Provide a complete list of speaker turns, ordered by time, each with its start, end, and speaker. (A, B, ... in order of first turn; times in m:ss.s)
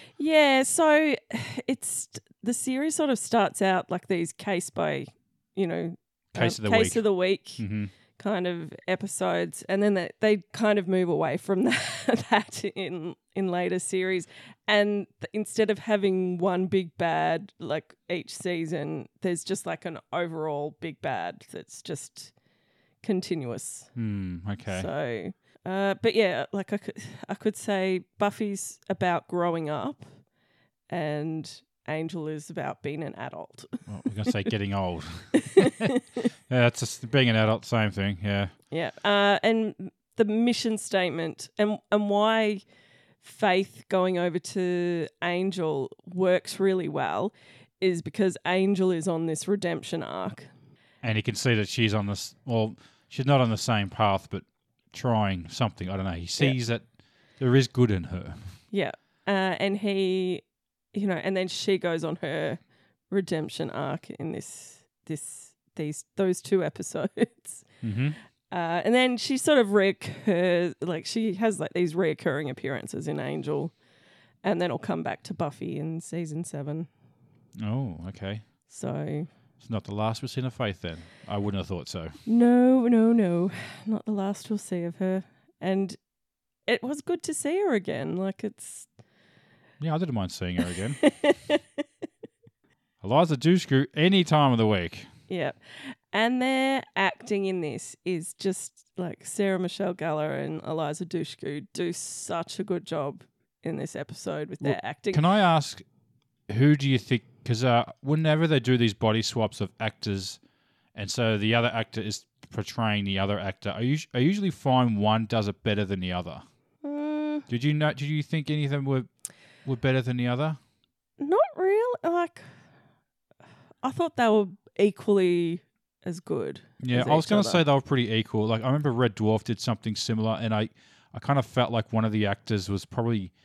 0:00.2-0:07.6 A
0:06.3-0:07.0 B
0:07.6-0:07.9 B
0:08.2-0:22.3 A
0:23.0-0:23.9 A
0:23.9-0:24.9 B
0:24.7-0:30.1 A
0:30.9-0:33.8 A
0:33.9-0:38.5 B
0:35.4-0:36.2 A
0:38.7-0:42.6 A
0:43.2-0:50.5 A
0:51.0-0:56.8 B
0:57.4-0:58.4 B
0:58.7-1:07.6 A
1:07.8-1:08.2 B
1:08.5-1:13.7 A
1:14.4-1:16.9 A
1:17.6-1:18.4 B
1:18.7-1:19.3 A
1:19.6-1:22.2 B
1:22.2-1:26.0 A
1:26.7-1:28.9 A
1:29.8-1:31.0 B
1:31.0-1:31.8 A
1:33.0-1:35.1 B
1:35.3-1:45.2 A
1:44.6-1:45.8 B
1:46.5-1:50.4 B
1:50.9-1:56.4 B
1:56.8-1:57.4 A
1:57.5-1:59.1 B
1:59.6-2:00.6 B
2:01.2-2:02.4 A
2:03.8-2:07.6 A
2:06.8-2:13.3 B